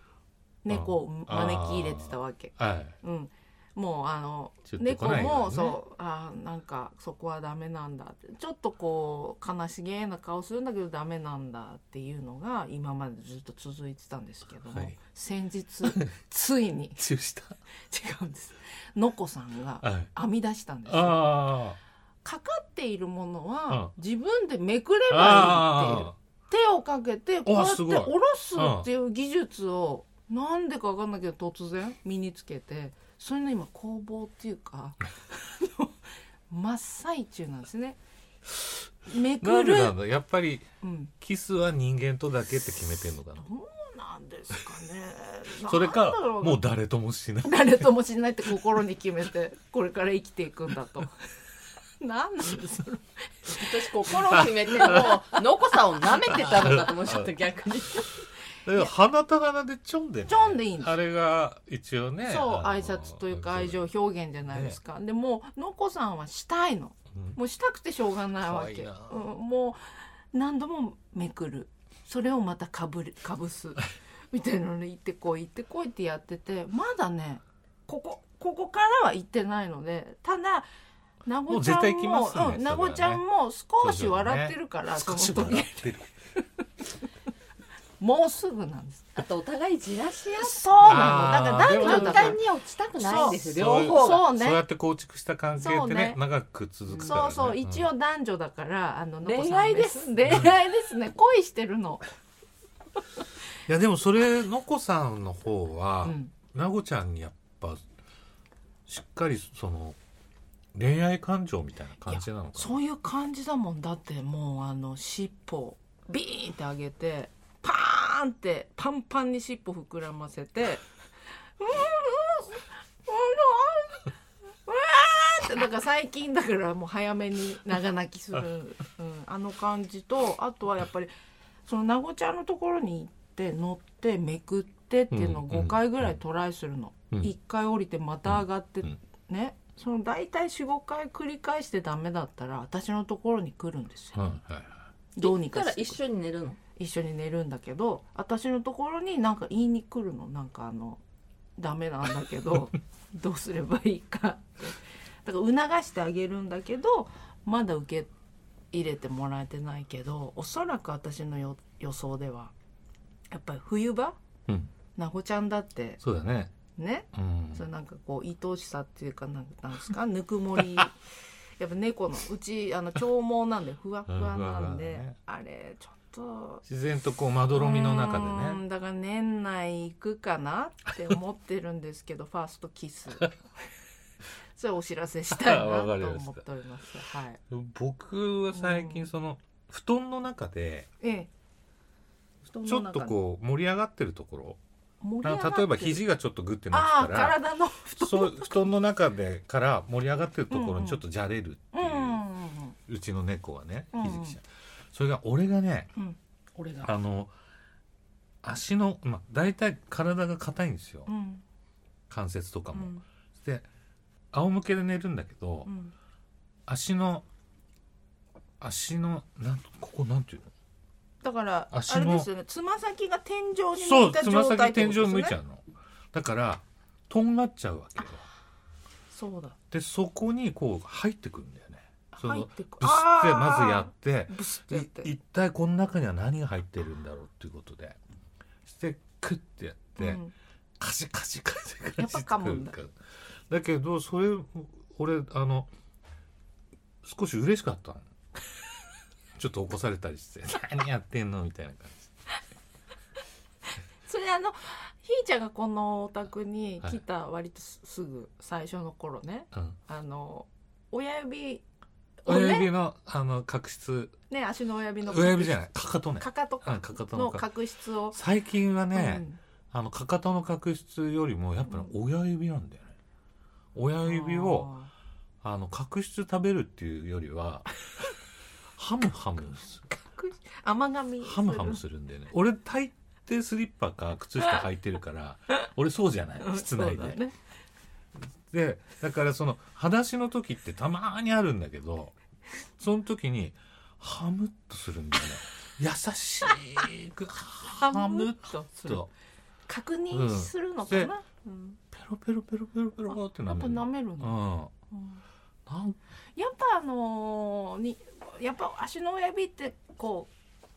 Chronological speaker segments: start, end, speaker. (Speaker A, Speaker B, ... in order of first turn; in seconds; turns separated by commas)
Speaker A: 0.6-17.0, Speaker B: 0.7-2.9, Speaker B: 4.7-5.8, Speaker B: 14.7-14.9, Speaker B: 17.0-17.6, Speaker A: 17.9-21.4, Speaker B: 19.8-20.1, Speaker B: 20.9-21.8, Speaker A: 22.2-35.9, Speaker B: 25.1-26.1, Speaker B: 27.4-28.9, Speaker A: 36.5-38.0, Speaker A: 39.0-40.0, Speaker B: 39.4-40.7, Speaker A: 40.8-41.1, Speaker B: 41.2-43.4, Speaker A: 43.4-46.6, Speaker B: 45.6-47.9, Speaker A: 47.4-51.1, Speaker A: 52.0-55.4, Speaker C: 53.5-58.1, Speaker B: 54.4-55.0, Speaker A: 56.2-56.8, Speaker B: 56.3-57.3, Speaker B: 58.6-63.8, Speaker A: 60.3-60.9, Speaker A: 62.2-80.7, Speaker B: 64.5-64.8, Speaker B: 68.4-69.2, Speaker A: 81.2-85.8, Speaker B: 81.5-83.2, Speaker B: 83.8-86.1, Speaker A: 88.0-89.2, Speaker C: 89.2-94.3, Speaker A: 90.3-92.4, Speaker B: 90.8-92.4, Speaker A: 93.0-94.6, Speaker B: 93.3-97.9, Speaker A: 95.6-96.2, Speaker C: 96.9-97.2, Speaker A: 97.0-102.0, Speaker C: 99.2-100.2, Speaker B: 100.2-100.5, Speaker B: 103.7-107.8, Speaker A: 106.0-106.3, Speaker B: 108.9-110.0, Speaker B: 110.7-112.8, Speaker A: 112.1-120.8, Speaker A: 121.6-124.1, Speaker A: 124.7-131.1, Speaker A: 131.7-144.3, Speaker B: 135.1-136.0, Speaker B: 138.3-138.9, Speaker B: 144.1-144.8, Speaker A: 145.2-146.0, Speaker C: 145.2-146.6, Speaker A: 146.8-151.0, Speaker A: 151.6-158.1, Speaker A: 158.7-162.5, Speaker A: 163.3-164.2, Speaker B: 164.5-164.7, Speaker A: 164.9-166.0, Speaker B: 166.0-166.5, Speaker A: 166.8-171.0, Speaker B: 167.1-167.6, Speaker A: 171.6-176.6, Speaker B: 174.1-175.2, Speaker B: 176.6-178.6, Speaker A: 177.5-183.4, Speaker A: 184.6-187.4, Speaker B: 185.3-186.4, Speaker B: 187.5-190.9, Speaker A: 188.5-189.1, Speaker A: 191.0-191.3, Speaker A: 192.4-193.2, Speaker B: 192.7-194.6, Speaker A: 195.0-196.0, Speaker B: 195.2-197.4, Speaker A: 196.7-198.6, Speaker B: 197.9-202.2, Speaker A: 200.5-201.0, Speaker A: 201.7-202.8, Speaker B: 202.9-205.9, Speaker A: 203.9-204.4, Speaker A: 205.9-206.9, Speaker B: 206.8-207.3, Speaker B: 208.4-211.1, Speaker A: 211.1-211.4, Speaker B: 212.1-213.7, Speaker A: 212.7-213.0, Speaker B: 214.3-215.7, Speaker A: 215.7-215.9, Speaker B: 216.7-217.2, Speaker B: 218.6-220.5, Speaker A: 221.2-225.4, Speaker B: 221.7-222.3, Speaker B: 223.8-228.2, Speaker A: 229.1-229.6, Speaker B: 229.7-238.0, Speaker A: 232.1-235.1, Speaker B: 238.6-240.2, Speaker A: 240.0-240.3, Speaker B: 240.8-243.0, Speaker A: 242.0-242.7, Speaker B: 243.5-245.7, Speaker B: 247.0-248.1, Speaker B: 249.3-252.1, Speaker A: 254.0-261.6, Speaker A: 262.2-262.7, Speaker B: 262.2-264.2, Speaker A: 264.3-268.2, Speaker B: 265.0-267.5, Speaker B: 268.1-272.9, Speaker A: 268.9-269.4, Speaker B: 273.7-274.7, Speaker A: 274.0-274.9, Speaker B: 275.4-277.7, Speaker B: 278.7-279.8, Speaker A: 279.9-281.8, Speaker B: 281.2-287.2, Speaker A: 286.4-287.3, Speaker B: 288.5-292.1, Speaker B: 292.8-299.1, Speaker A: 297.7-299.1, Speaker A: 299.7-301.8, Speaker B: 300.1-301.1, Speaker B: 301.9-304.7, Speaker A: 303.1-304.3, Speaker A: 304.9-305.2, Speaker B: 305.7-306.0, Speaker A: 306.4-310.3